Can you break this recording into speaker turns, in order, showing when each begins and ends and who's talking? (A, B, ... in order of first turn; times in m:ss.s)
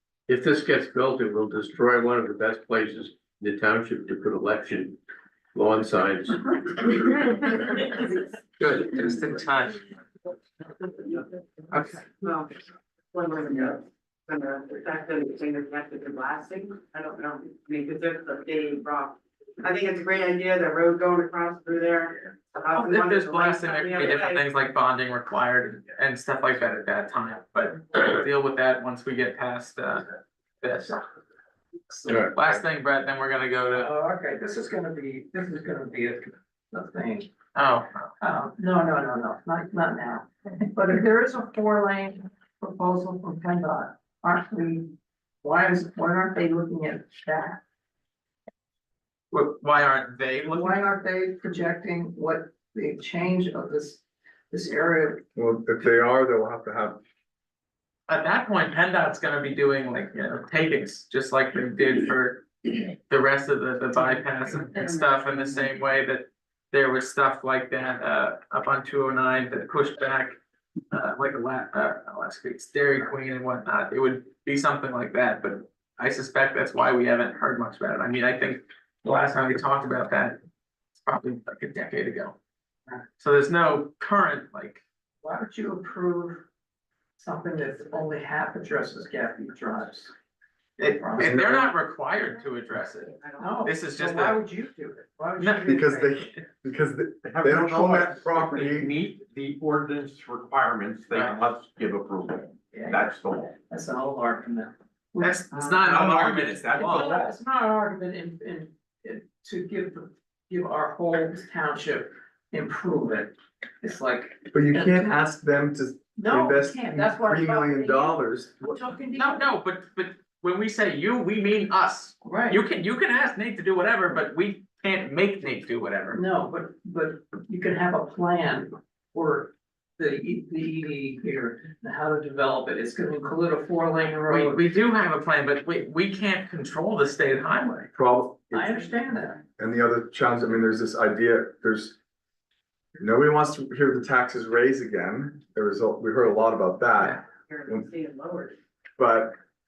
0:00.3-0:05.0 A
0:05.5-0:07.4 A
0:08.6-0:09.8 B
0:11.7-0:12.1 B
0:12.1-0:12.5 C
0:13.1-0:24.4 C
0:22.7-0:31.0 B
0:32.0-0:33.9 B
0:32.1-0:32.5 A
0:33.8-0:37.3 D
0:37.6-0:38.1 B
0:38.2-0:47.6 D
0:49.3-0:50.8 B
0:50.5-0:55.2 D
0:55.4-0:57.0 E
0:58.1-1:10.4 B
1:10.9-1:20.4 B
1:21.0-1:22.4 B
1:23.2-1:24.8 B
1:25.2-1:26.4 D
1:27.2-1:30.1 D
1:30.8-1:34.4 B
1:30.9-1:31.7 D
1:31.2-1:31.7 E
1:33.2-1:33.5 C
1:33.4-1:36.3 D
1:35.4-1:35.7 B
1:35.7-1:38.9 E
1:37.6-1:43.5 F
1:42.7-1:55.2 D
1:45.2-1:47.2 B
1:45.9-1:47.3 F
1:54.5-1:58.8 E
1:56.2-1:59.5 D
1:59.1-2:06.2 B
2:02.2-2:02.6 D
2:06.1-2:14.7 D
2:14.3-2:17.9 B
2:17.9-2:18.8 E
2:18.5-2:19.4 D
2:19.6-2:22.0 E
2:23.0-2:27.8 E
2:27.4-2:28.6 C
2:29.0-2:29.4 E